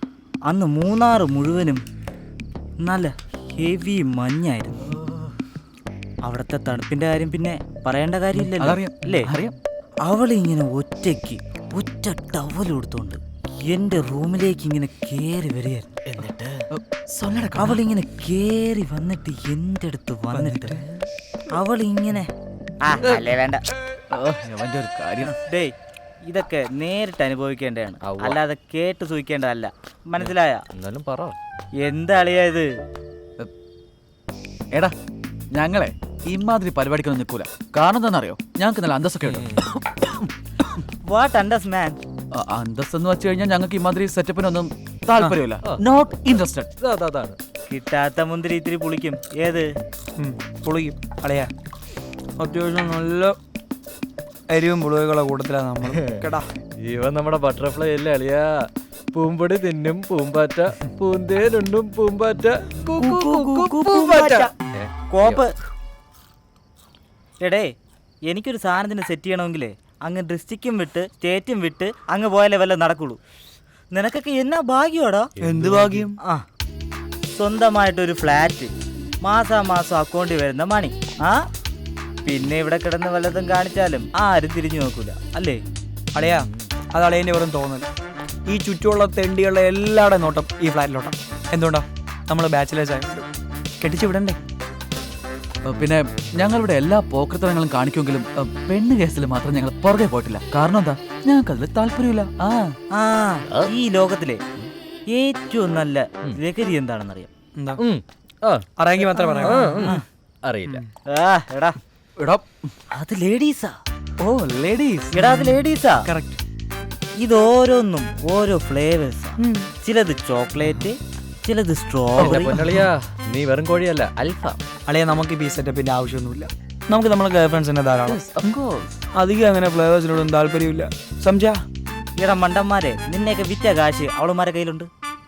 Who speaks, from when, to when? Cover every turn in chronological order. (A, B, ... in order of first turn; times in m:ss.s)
0:00.5-0:01.8 A
0:02.8-0:04.9 A
0:04.9-0:05.2 B
0:06.2-0:09.3 A
0:08.4-0:09.6 B
0:10.1-0:16.0 A
0:16.1-0:16.6 C
0:16.7-0:17.8 B
0:17.6-0:20.8 A
0:20.3-0:20.8 D
0:21.5-0:22.3 A
0:22.8-0:23.6 A
0:23.0-0:23.3 B
0:24.1-0:25.3 B
0:25.2-0:25.7 A
0:26.3-0:30.6 A
0:28.0-0:28.4 C
0:30.2-0:31.4 C
0:31.8-0:32.7 A
0:35.5-0:40.3 B
0:39.3-0:39.6 C
0:40.8-0:42.0 A
0:42.3-0:46.7 B
0:46.8-0:47.4 C
0:47.7-0:49.7 A
0:50.2-0:51.5 D
0:52.4-0:53.4 D
0:54.5-0:56.5 D
0:55.8-0:56.3 C
0:56.8-1:05.4 C
1:02.9-1:04.5 A
1:03.1-1:04.4 D
1:05.1-1:05.6 A
1:07.4-1:07.7 A
1:08.3-1:13.2 A
1:13.9-1:15.3 A
1:15.4-1:16.1 C
1:15.4-1:16.2 D
1:16.2-1:16.4 A
1:17.3-1:21.4 A
1:22.2-1:25.6 A
1:26.2-1:27.9 D
1:26.2-1:26.7 C
1:28.5-1:33.3 D
1:33.8-1:34.4 D
1:35.6-1:42.7 B
1:42.9-1:44.4 A
1:45.1-1:47.3 A
1:47.8-1:48.7 C
1:48.8-1:50.0 D
1:49.2-1:50.8 C
1:51.1-1:51.8 A
1:52.2-1:52.6 B
1:52.9-1:53.8 A
1:54.2-1:56.4 D
1:55.1-1:56.1 A
1:57.2-2:02.6 A
1:59.4-1:59.7 D
2:02.2-2:04.6 C
2:02.2-2:02.6 B
2:04.9-2:08.5 D
2:08.1-2:08.7 B
2:09.1-2:11.6 D
2:12.2-2:14.9 A